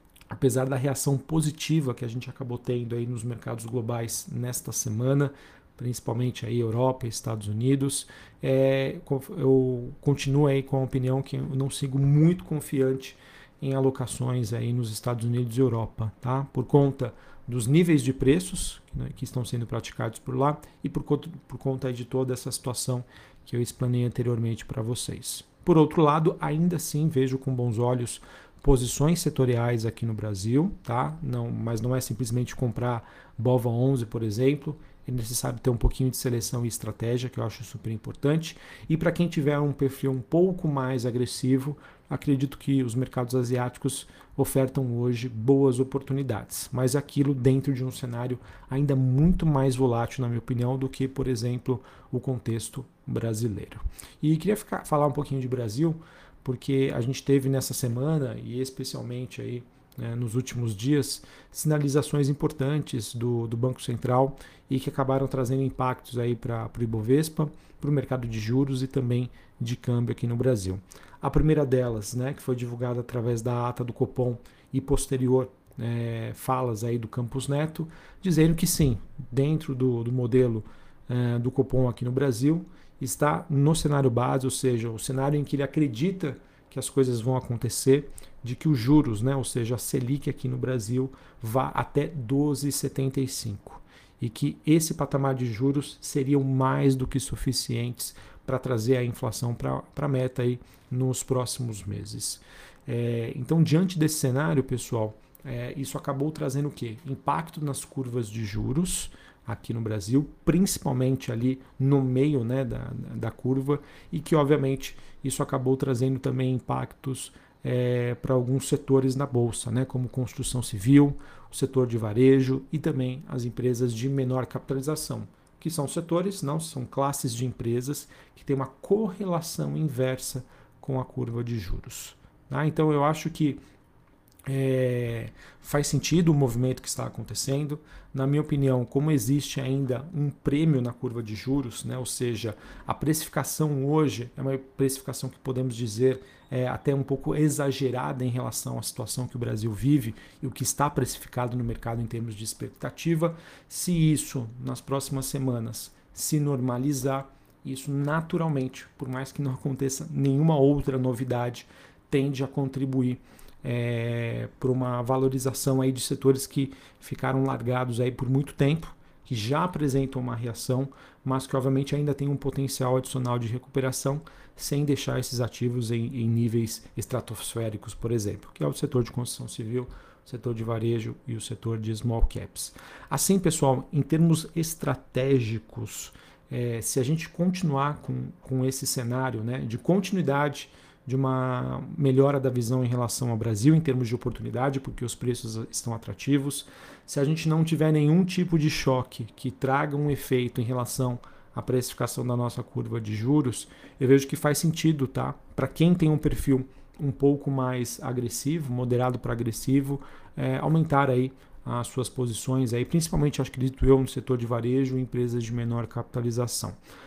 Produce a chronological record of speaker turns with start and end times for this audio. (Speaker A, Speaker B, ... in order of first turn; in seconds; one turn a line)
Speaker A: 0.3-133.6
Speaker A: 134.4-216.8